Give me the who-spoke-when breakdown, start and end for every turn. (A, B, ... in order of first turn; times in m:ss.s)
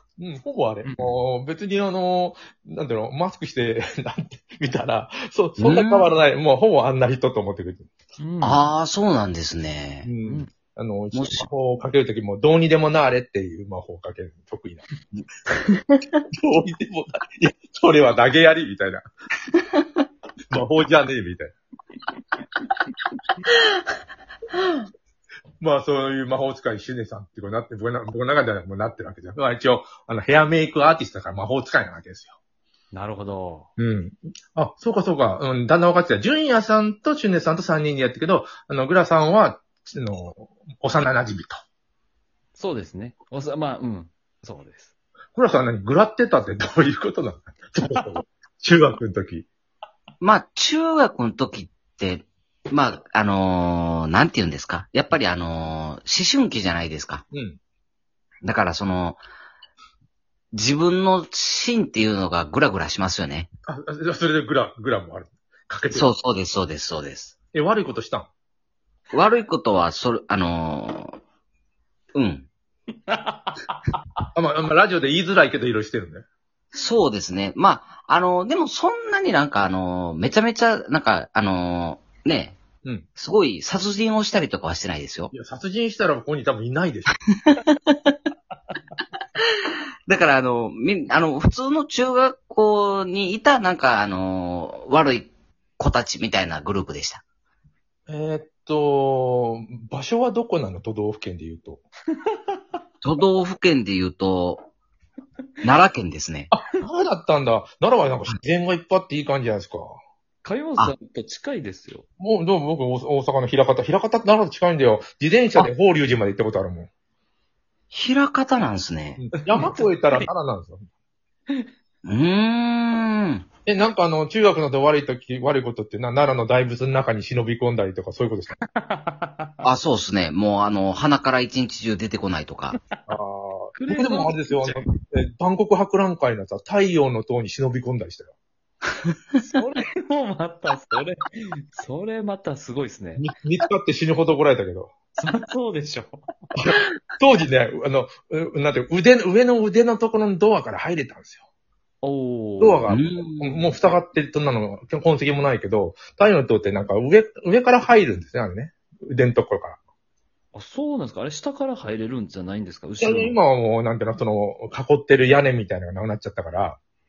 0:00.2-0:07.9 A
0:00.8-0:01.2 B
0:05.6-0:06.1 C
0:08.2-0:08.6 B
0:08.4-0:10.1 C
0:10.0-0:14.8 A
0:10.2-0:10.5 B
0:11.1-0:11.5 C
0:16.4-0:19.0 A
0:20.5-0:21.5 A
0:25.6-0:32.3 A
0:32.9-0:33.7 B
0:33.8-0:41.6 A
0:42.6-0:44.9 B
0:45.3-0:49.5 A
0:50.2-0:57.2 C
0:57.3-0:57.6 A
0:58.4-0:59.2 C
1:00.5-1:03.5 C
1:03.7-1:06.1 A
1:05.9-1:07.3 C
1:07.5-1:08.3 A
1:09.1-1:11.2 C
1:12.1-1:12.5 C
1:13.1-1:14.2 B
1:14.3-1:16.2 A
1:16.7-1:22.6 C
1:23.2-1:25.3 C
1:25.3-1:27.2 A
1:27.5-1:28.1 C
1:30.1-1:37.2 C
1:38.1-1:41.8 A
1:43.0-1:44.6 C
1:45.6-1:46.5 C
1:46.5-1:50.0 A
1:50.4-1:52.1 B
1:52.2-1:56.9 A
1:57.9-1:59.2 C
1:59.2-2:00.8 A
1:59.6-2:00.3 B
2:02.0-2:03.4 C
2:03.6-2:08.6 A
2:08.8-2:09.6 B
2:09.6-2:12.8 C
2:12.7-2:13.0 B
2:13.1-2:18.3 A
2:13.8-2:14.8 B
2:19.4-2:23.2 B
2:23.2-2:24.9 A
2:25.2-2:26.2 B
2:26.6-2:31.4 A
2:32.0-2:32.9 B
2:32.6-2:39.8 A
2:32.9-2:33.7 C
2:40.5-2:43.4 B
2:43.0-2:46.8 A